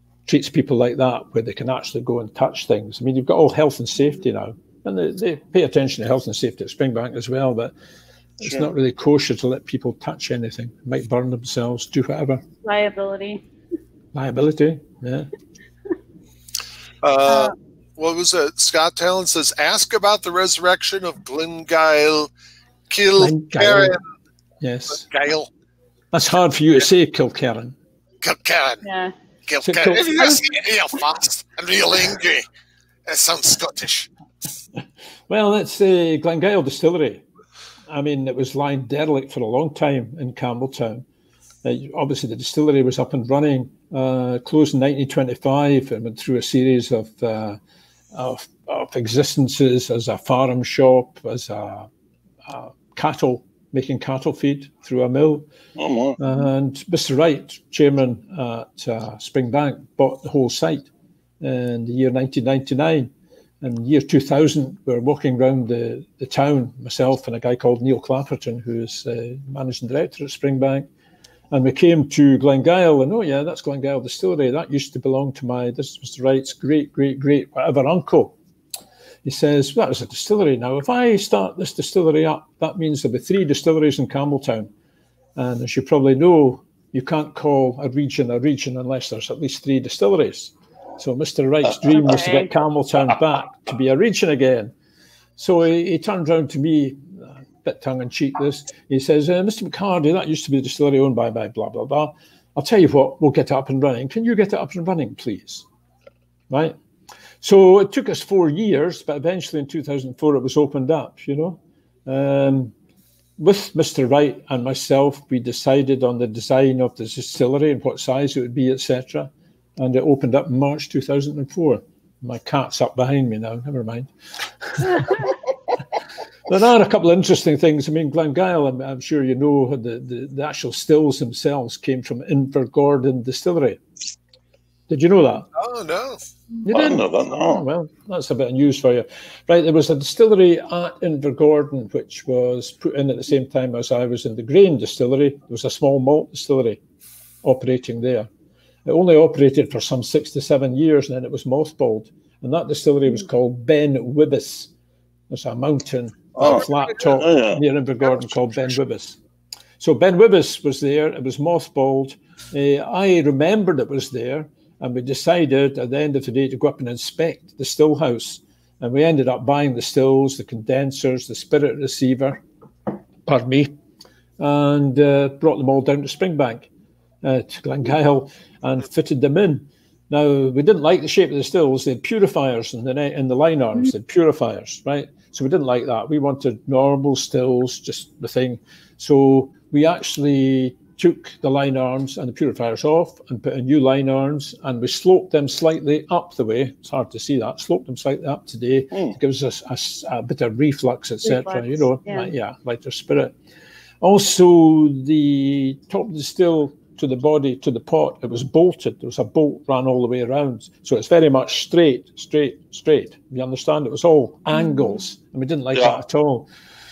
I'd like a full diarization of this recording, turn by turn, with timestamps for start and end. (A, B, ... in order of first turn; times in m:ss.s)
0:00.3-0:07.7 A
0:08.4-0:12.4 A
0:12.6-0:13.4 B
0:14.1-0:15.3 A
0:17.0-0:22.3 C
0:17.3-0:17.5 B
0:22.9-0:24.0 C
0:23.2-0:24.0 A
0:24.6-0:25.1 A
0:25.0-0:25.5 C
0:26.1-0:27.8 A
0:28.2-0:28.8 C
0:28.8-0:29.1 B
0:29.5-0:32.4 C
0:29.6-0:30.5 A
0:33.1-0:34.1 C
0:35.3-0:37.2 A
0:37.9-0:41.0 A
0:41.6-0:47.6 A
0:48.1-0:51.9 A
0:52.5-0:55.5 A
0:55.8-0:56.2 D
0:56.2-1:00.9 A
1:01.4-1:03.1 A
1:03.6-1:10.9 A
1:11.5-1:18.4 A
1:19.2-1:24.7 A
1:25.4-1:34.7 A
1:31.9-1:32.5 B
1:35.4-1:45.6 A
1:46.5-1:46.8 A
1:47.4-1:52.7 A
1:53.4-2:04.1 A
2:04.6-2:05.3 A
2:06.5-2:13.8 A
2:14.9-2:15.5 A
2:15.6-2:16.2 C
2:16.6-2:26.8 A
2:16.7-2:17.6 D
2:27.4-2:28.3 A
2:28.9-2:34.7 A
2:35.3-2:39.2 A
2:36.4-2:37.6 D
2:39.8-2:52.4 A
2:53.3-2:53.7 A
2:54.4-2:56.7 A
2:57.2-3:23.3 A
3:21.2-3:22.3 B
3:24.0-3:36.5 A
3:35.7-3:36.0 D